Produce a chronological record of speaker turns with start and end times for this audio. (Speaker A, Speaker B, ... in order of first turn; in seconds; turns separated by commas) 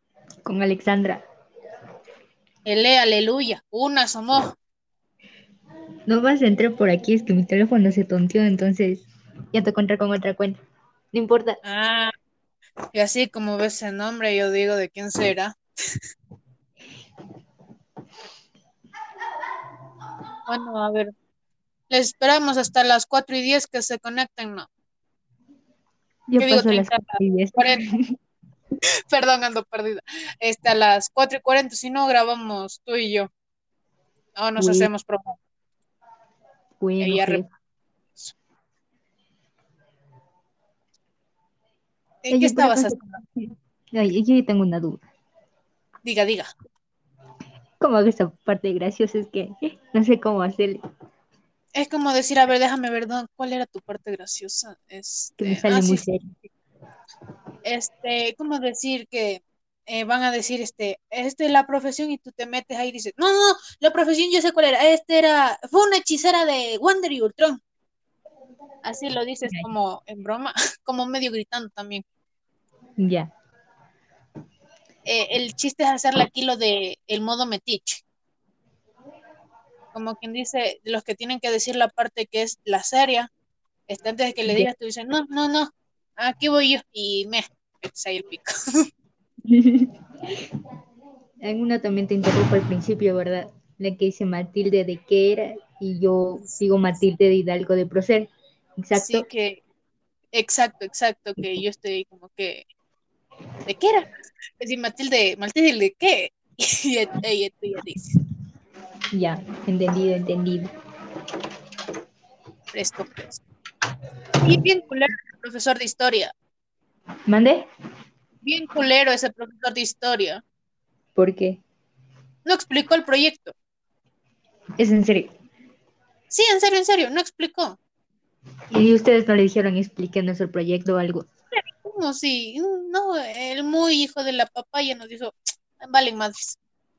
Speaker A: 0.5-1.2, Speaker B: 2.7-4.5, Speaker A: 6.1-10.6, Speaker A: 11.1-11.6, Speaker B: 11.6-12.1, Speaker B: 12.9-15.6, Speaker B: 20.5-21.1, Speaker B: 21.9-24.7, Speaker A: 26.3-28.2, Speaker B: 26.4-27.8, Speaker B: 29.1-33.3, Speaker B: 34.4-35.4, Speaker A: 34.6-34.9, Speaker A: 36.8-37.5, Speaker B: 37.0-37.4, Speaker B: 42.2-43.0, Speaker A: 42.3-45.0, Speaker B: 46.0-46.5, Speaker A: 47.8-50.8, Speaker B: 51.8-56.0, Speaker A: 55.4-56.3, Speaker B: 57.6-67.6, Speaker B: 68.8-72.0, Speaker A: 73.0-73.3, Speaker B: 75.1-78.0, Speaker B: 79.9-83.3, Speaker B: 83.9-88.9, Speaker A: 89.5-89.9, Speaker A: 91.4-99.2, Speaker B: 99.0-99.6, Speaker B: 100.3-102.7, Speaker B: 103.7-104.1, Speaker B: 104.6-108.2, Speaker A: 109.1-110.7, Speaker B: 112.7-113.4, Speaker B: 114.4-116.3, Speaker A: 117.3-117.7, Speaker B: 118.4-120.4, Speaker A: 121.2-121.6, Speaker B: 122.5-123.5, Speaker A: 124.8-125.3, Speaker B: 126.3-127.8, Speaker A: 128.7-131.3, Speaker B: 131.6-136.6